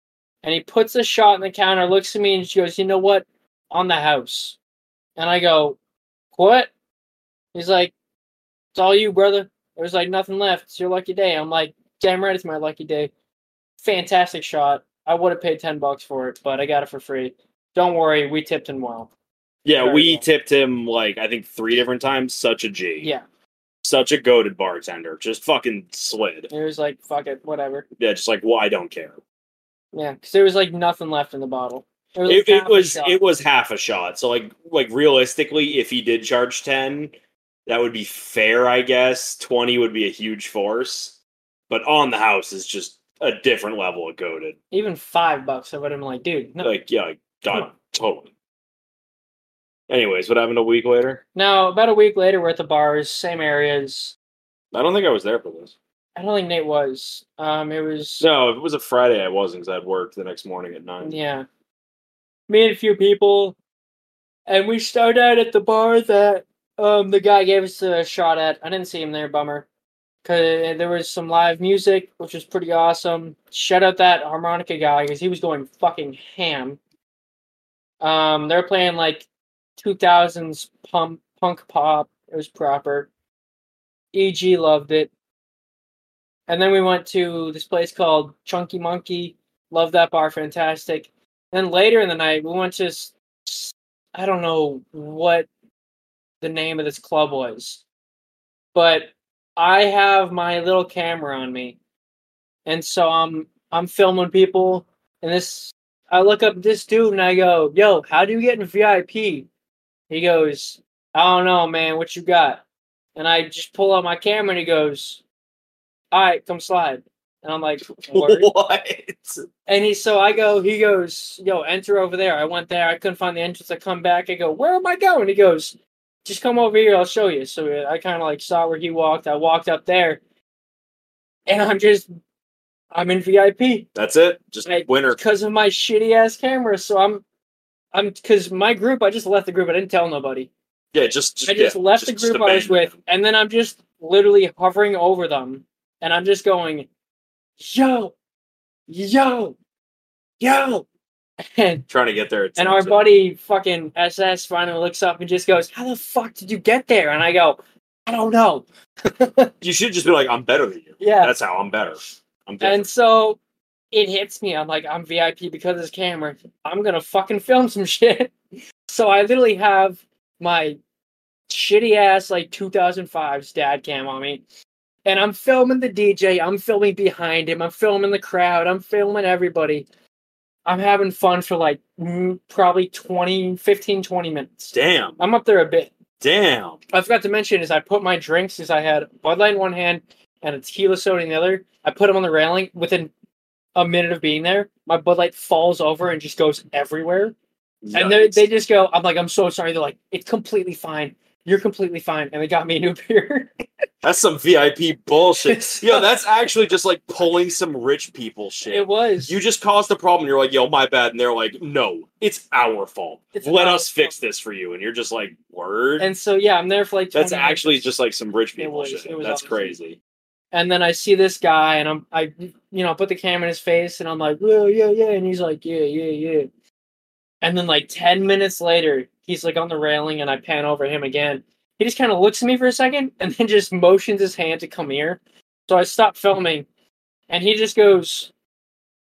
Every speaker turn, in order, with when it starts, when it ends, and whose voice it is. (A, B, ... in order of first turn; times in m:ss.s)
0:00.4-0:04.6 A
0:05.2-0:05.8 A
0:06.3-0:06.7 A
0:07.5-0:07.9 A
0:08.7-0:13.1 A
0:13.8-0:19.1 A
0:19.6-0:23.1 B
0:19.8-0:20.2 A
0:23.8-0:26.5 B
0:26.5-0:27.9 A
0:28.0-0:29.2 B
0:29.9-0:33.2 A
0:32.2-0:37.1 B
0:37.6-0:41.2 B
0:41.7-0:44.6 B
0:44.7-0:46.7 A
0:46.6-0:48.3 B
0:49.9-0:51.2 B
0:51.4-0:54.1 A
0:54.7-0:55.8 B
0:56.2-0:58.3 A
0:58.2-1:01.2 B
1:01.0-1:01.5 A
1:02.5-1:03.6 A
1:04.5-1:09.7 A
1:10.2-1:16.8 A
1:18.0-1:19.3 A
1:19.8-1:23.1 A
1:24.1-1:25.1 A
1:26.5-1:35.5 A
1:36.4-1:37.8 A
1:38.7-1:41.8 A
1:42.6-1:49.5 A
1:50.1-1:52.6 A
1:53.2-1:55.2 A
1:56.1-1:58.5 A
1:57.9-1:59.5 B
1:59.6-2:10.2 A
2:11.5-2:12.1 A
2:12.9-2:13.9 A
2:14.0-2:15.2 B
2:14.6-2:17.2 A
2:17.9-2:20.5 A
2:20.9-2:23.0 B
2:21.4-2:26.9 A
2:27.6-2:28.1 A
2:28.9-2:29.6 A
2:30.4-2:30.8 A
2:31.5-2:31.9 A
2:31.9-2:33.1 B
2:32.6-2:39.5 A
2:39.6-2:42.9 B
2:41.0-2:41.3 A
2:42.6-2:43.4 A
2:43.9-2:48.3 A
2:48.9-2:50.8 A
2:51.5-2:54.4 A
2:55.0-2:59.9 A
3:00.6-3:05.9 A
3:04.7-3:05.2 B
3:06.2-3:06.8 B
3:06.9-3:13.1 A
3:13.8-3:17.4 A
3:17.8-3:18.5 B
3:17.9-3:23.5 A
3:24.0-3:36.1 B
3:25.5-3:26.1 A
3:28.6-3:29.4 A
3:33.4-3:34.2 A
3:36.0-3:37.9 A
3:37.1-3:40.0 B
3:38.6-3:39.7 A
3:40.5-3:46.5 A
3:47.4-3:56.7 A
3:57.3-3:58.3 A